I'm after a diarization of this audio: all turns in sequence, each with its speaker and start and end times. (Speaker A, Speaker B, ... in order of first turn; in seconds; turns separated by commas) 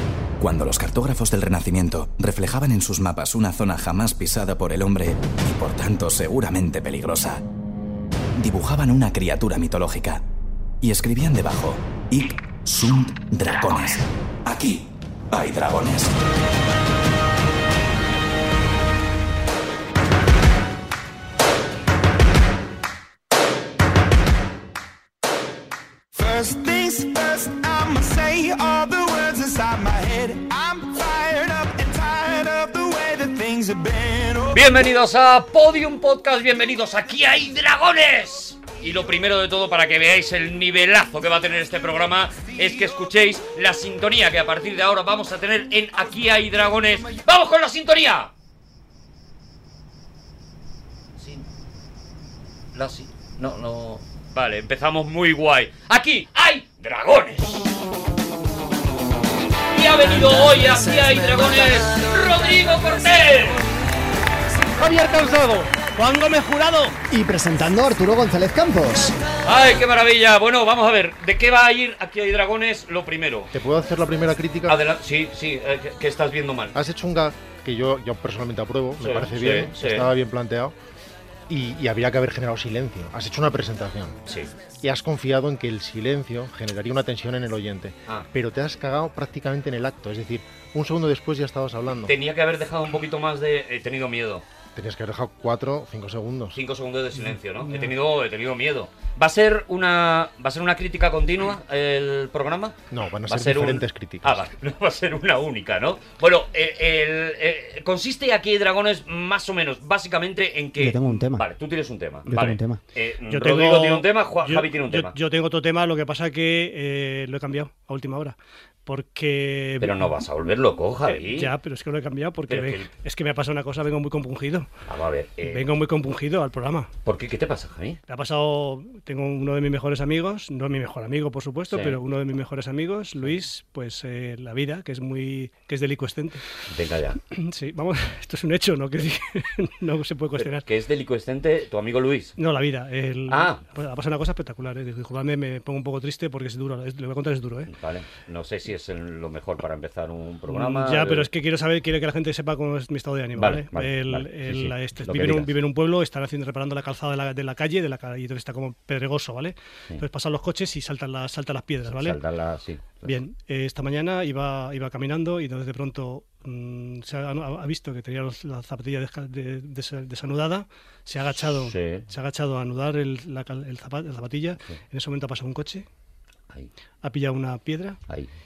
Speaker A: 0.4-7.4, Speaker A: 8.3-10.2, Speaker A: 10.8-16.2, Speaker B: 26.1-34.6, Speaker C: 34.5-48.3, Speaker C: 51.2-51.5, Speaker C: 52.7-57.8, Speaker C: 59.7-63.7, Speaker D: 60.0-62.1, Speaker E: 64.8-67.0, Speaker D: 67.1-69.2, Speaker C: 69.4-73.5, Speaker F: 73.5-74.8, Speaker C: 74.7-76.8, Speaker F: 76.7-80.8, Speaker C: 79.0-80.1, Speaker F: 81.5-84.2, Speaker C: 84.3-84.5, Speaker F: 84.8-92.1, Speaker C: 92.1-94.4, Speaker F: 94.7-96.6, Speaker C: 96.5-115.1, Speaker F: 102.9-104.4, Speaker D: 110.8-111.5, Speaker D: 112.2-112.8, Speaker E: 113.3-120.1, Speaker C: 119.8-121.5, Speaker E: 121.0-124.7, Speaker C: 122.5-122.9, Speaker C: 124.8-125.7, Speaker E: 125.4-126.9, Speaker C: 127.0-128.0, Speaker E: 128.1-136.4, Speaker C: 131.7-132.0, Speaker C: 136.7-137.2, Speaker E: 137.3-140.7, Speaker C: 140.4-142.3, Speaker E: 142.4-147.7, Speaker C: 143.3-143.6, Speaker C: 147.7-151.3, Speaker E: 150.5-162.2, Speaker C: 153.3-155.5, Speaker C: 161.9-163.1, Speaker E: 163.0-175.8, Speaker C: 171.4-172.1, Speaker E: 177.0-178.0